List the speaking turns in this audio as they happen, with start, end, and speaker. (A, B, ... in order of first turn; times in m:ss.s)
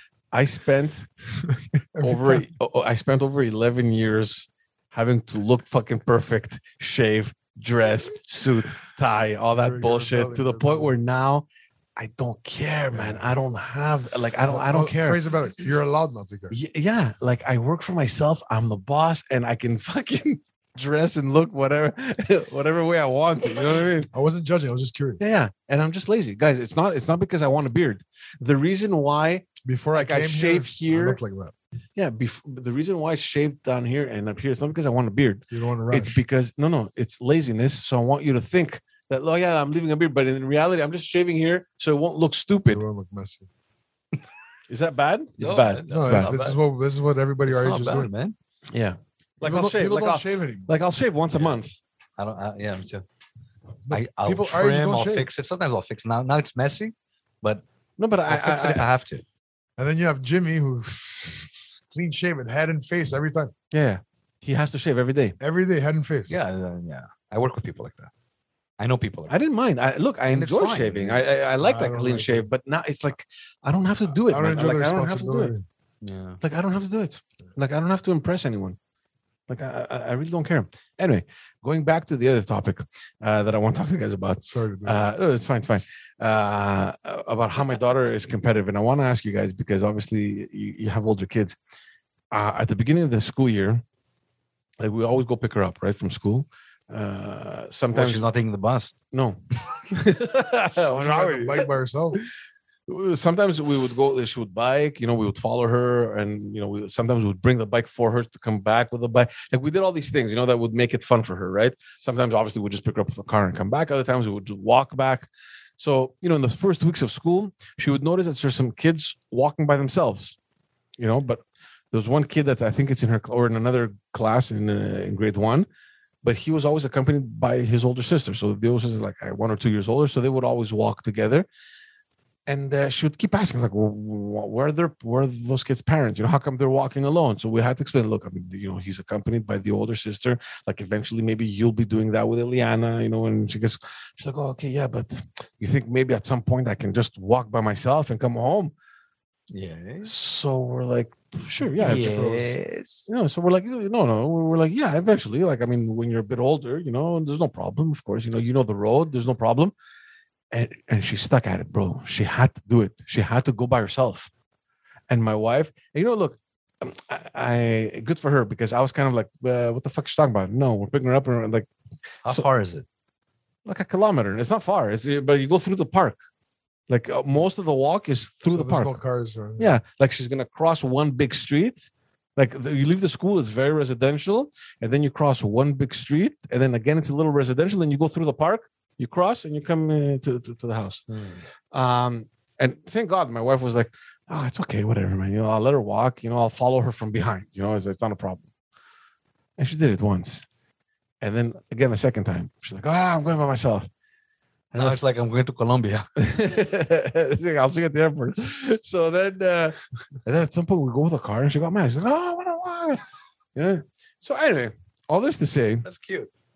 0:00.3-0:01.1 A
0:01.4-0:02.4 B
0:02.0-0:11.4 A
0:09.5-0:10.9 B
0:12.0-0:15.2 A
0:12.9-0:13.3 B
0:14.5-0:16.6 B
0:16.5-0:24.1 A
0:24.1-0:25.2 B
0:25.2-0:31.2 A
0:29.6-0:31.5 B
0:32.0-0:42.8 A
0:35.5-0:36.2 B
0:42.7-0:43.5 B
0:44.7-0:46.3 A
0:45.4-0:46.6 C
0:45.9-0:48.1 B
0:47.4-0:48.3 C
0:48.7-0:51.8 A
0:49.4-0:50.7 B
0:52.2-0:53.0 C
0:53.8-0:55.3 B
0:53.9-0:57.6 C
0:58.0-0:58.8 A
0:58.2-0:59.2 C
0:59.8-1:03.5 B
1:03.7-1:05.4 A
1:05.4-1:06.3 B
1:06.3-1:08.1 C
1:08.8-1:09.3 C
1:09.3-1:15.5 A
1:10.3-1:11.2 C
1:11.6-1:12.5 B
1:14.1-1:15.6 B
1:16.0-1:16.4 C
1:16.4-1:18.8 A
1:19.5-1:31.6 A
1:24.4-1:25.0 B
1:32.3-1:33.8 A
1:34.8-1:38.2 A
1:37.9-1:38.9 C
1:39.1-1:41.7 A
1:40.9-1:42.2 B
1:42.9-2:00.4 A
2:01.0-2:05.7 A
2:06.2-2:11.4 A
2:12.5-2:28.7 A
2:29.5-2:30.1 C
2:30.0-2:32.5 A
2:31.8-2:32.4 B
2:31.8-2:33.1 C
2:33.0-2:39.7 A
2:40.5-2:44.3 A
2:45.1-2:51.7 A
2:52.2-2:52.8 C
2:53.6-2:56.2 A
2:56.9-2:58.9 A
2:58.5-2:59.7 B
2:59.6-3:11.1 A
3:11.7-3:18.4 A
3:19.6-3:20.4 A
3:21.2-3:23.9 A
3:24.7-3:26.1 C
3:24.7-3:25.0 A
3:26.2-3:35.8 A
3:35.8-3:36.3 C